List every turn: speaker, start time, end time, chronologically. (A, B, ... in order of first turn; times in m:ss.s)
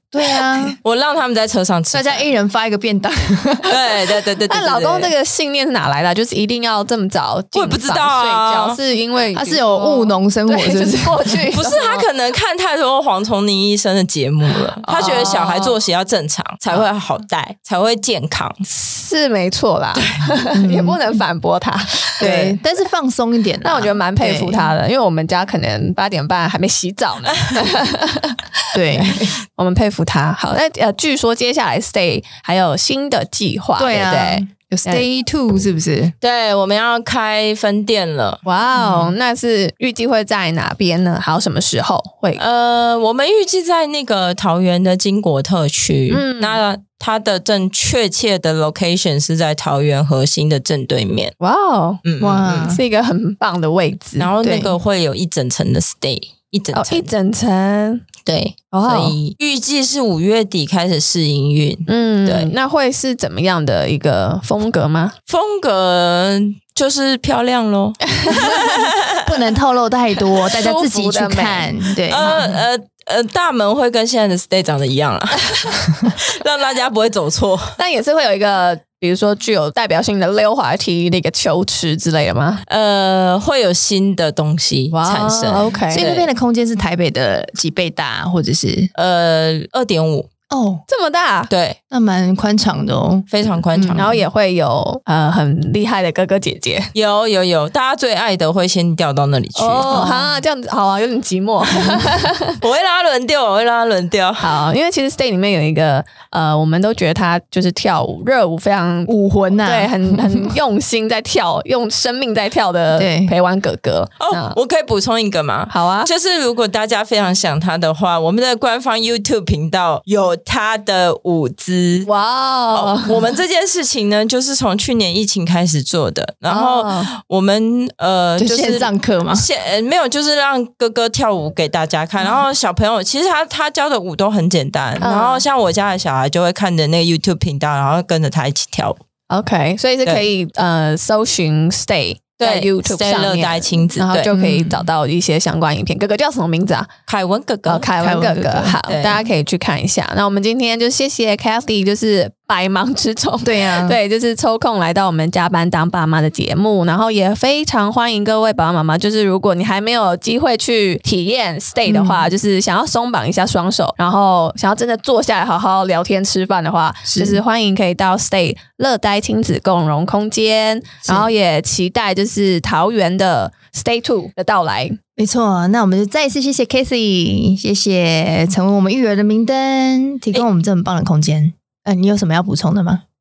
0:00.1-0:00.8 A
0:00.8-0:02.2 B
0:01.9-0:03.9 A
0:03.6-0:05.1 B
0:04.5-0:12.1 C
0:07.5-0:08.8 B
0:09.3-0:11.3 A
0:11.5-0:18.6 B
0:14.9-0:15.8 C
0:18.7-0:22.3 C
0:19.9-0:20.4 B
0:20.5-0:21.0 A
0:22.2-0:22.6 B
0:22.2-0:24.7 A
0:23.6-0:35.0 C
0:28.7-0:29.2 A
0:33.8-0:36.1 A
0:36.2-0:38.4 B
0:38.4-0:42.4 C
0:38.8-0:39.1 A
0:42.4-0:51.3 B
0:46.1-0:46.6 C
0:51.4-0:52.0 C
0:52.0-0:52.8 B
0:52.2-0:52.8 A
0:52.7-0:54.7 C
0:54.2-0:57.1 B
0:56.7-0:58.0 C
0:58.2-1:02.5 B
0:58.7-0:59.2 C
1:01.9-1:05.2 C
1:05.3-1:09.4 B
1:08.1-1:08.6 C
1:09.2-1:12.6 A
1:10.4-1:11.7 C
1:12.1-1:17.8 B
1:17.8-1:22.6 C
1:22.7-1:26.3 B
1:24.9-1:26.0 C
1:25.9-1:28.9 A
1:28.9-1:30.3 B
1:30.5-1:30.8 A
1:30.9-1:31.5 C
1:31.5-1:31.8 B
1:31.9-1:34.2 A
1:33.3-1:34.2 B
1:33.9-1:36.9 C
1:36.9-1:39.9 B
1:39.5-1:42.6 C
1:39.9-1:40.3 A
1:41.8-1:42.0 A
1:42.6-1:44.6 B
1:44.4-1:54.6 C
1:49.1-1:50.5 A
1:52.9-1:53.3 A
1:54.2-2:02.1 B
1:55.7-1:56.1 C
2:02.0-2:03.2 C
2:02.7-2:19.0 B
2:06.5-2:07.1 C
2:08.4-2:09.5 A
2:15.0-2:15.4 C
2:19.3-2:26.9 C
2:22.4-2:24.3 B
2:24.3-2:24.9 A
2:27.1-2:27.9 B
2:27.6-2:55.0 C
2:28.0-2:28.8 A
2:28.9-2:29.2 B
2:33.4-2:34.0 A
2:41.9-2:42.3 A
2:47.1-2:47.4 A
2:51.0-2:51.3 A
2:55.2-3:03.0 A